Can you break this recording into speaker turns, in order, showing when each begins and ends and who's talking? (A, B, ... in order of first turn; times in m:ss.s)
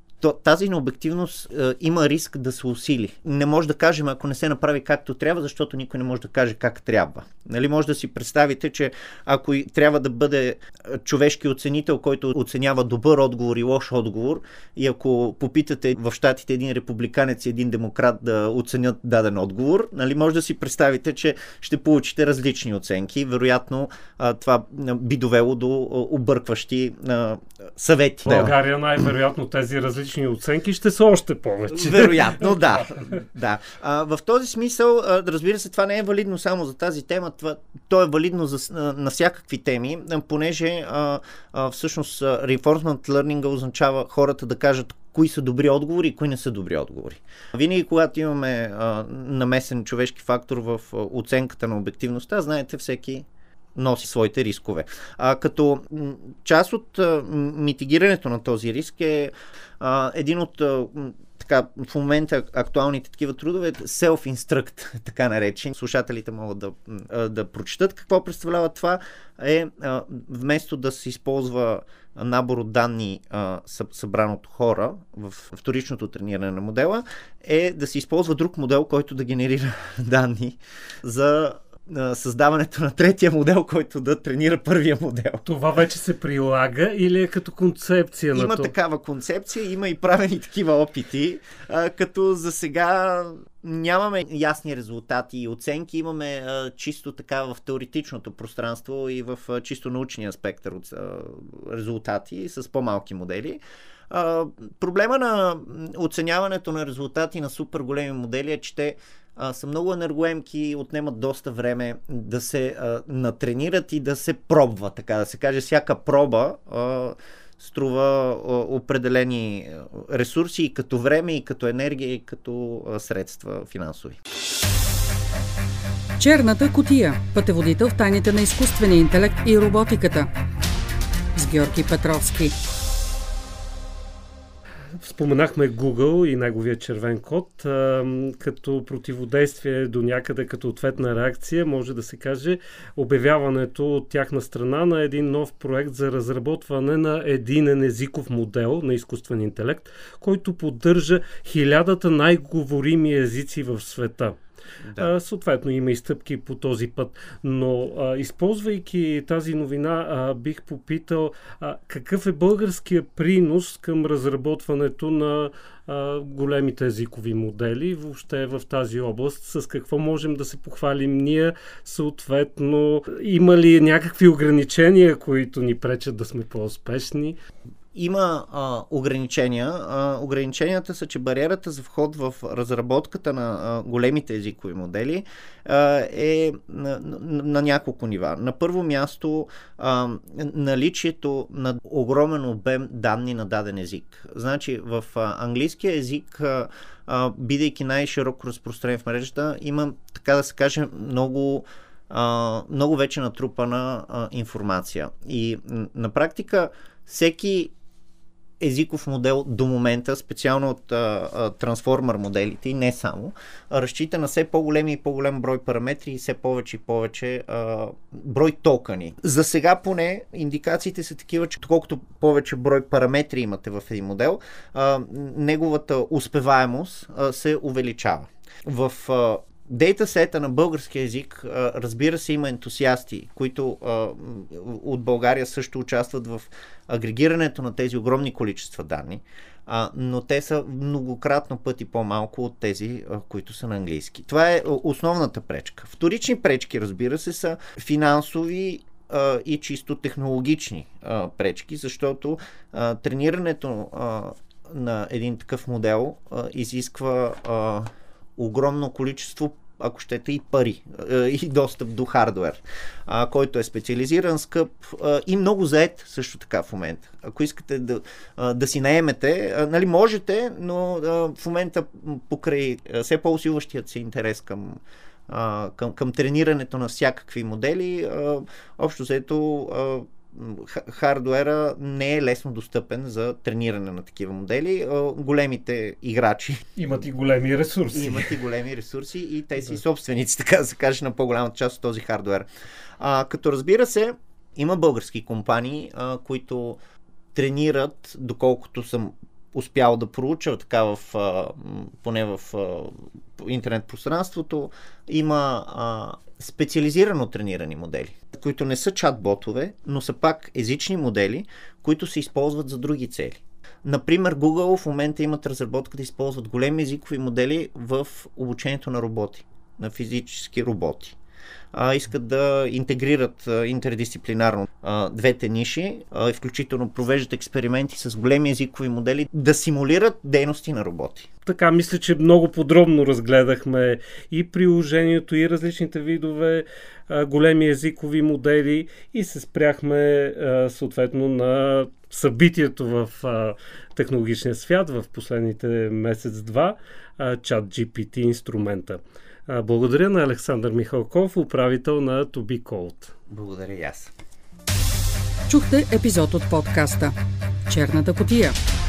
0:00.2-0:28.5 A
0:28.2-0:32.8 B
0:31.7-1:25.4 A
1:25.4-1:28.7 B
1:28.3-2:04.2 A
2:06.2-2:10.3 C
2:11.3-2:12.5 C
2:15.0-2:34.4 B
2:34.8-2:35.1 A
2:35.0-2:57.4 B
2:57.9-3:27.7 A
3:28.6-4:46.6 A
4:46.8-4:48.3 B
4:47.9-4:52.5 A
4:53.0-4:56.8 A
4:57.3-5:21.2 A
5:21.7-5:31.3 A
5:31.4-5:53.1 B
5:53.3-5:54.1 A
5:55.5-5:57.1 C
5:57.7-5:58.5 C